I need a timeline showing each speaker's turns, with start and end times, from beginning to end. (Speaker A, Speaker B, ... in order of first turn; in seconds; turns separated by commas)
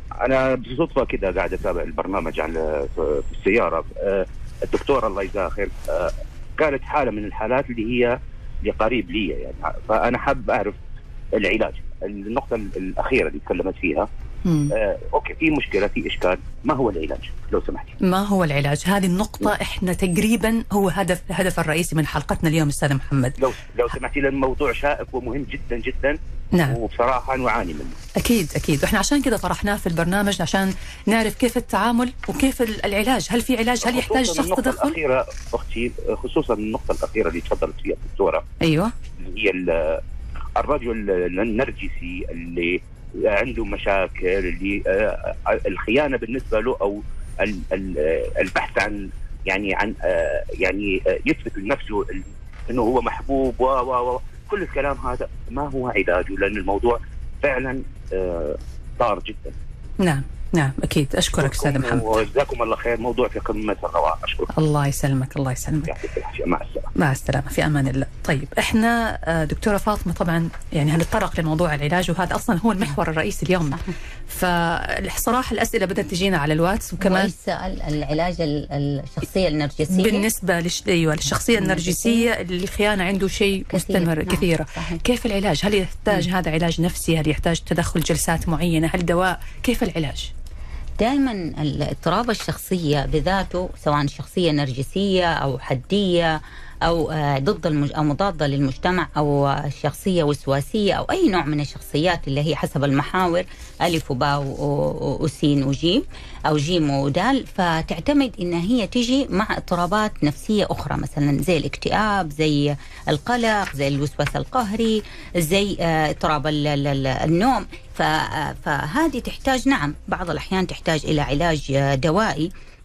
Speaker A: 0.2-10.8, Speaker A: 11.3-14.1, Speaker B: 14.4-14.7, Speaker A: 14.7-18.0, Speaker B: 18.0-23.4, Speaker A: 23.4-26.2, Speaker A: 26.7-28.0, Speaker B: 28.2-35.0, Speaker A: 33.8-38.4, Speaker B: 38.6-38.9, Speaker A: 39.2-40.0, Speaker A: 40.6-59.5, Speaker B: 60.0-62.1, Speaker A: 61.4-64.5, Speaker B: 64.5-65.9, Speaker A: 65.9-66.9, Speaker B: 67.0-77.3, Speaker C: 73.7-73.9, Speaker C: 77.0-80.3, Speaker B: 79.9-90.3, Speaker C: 81.6-82.3, Speaker C: 83.7-85.0, Speaker C: 91.0-122.5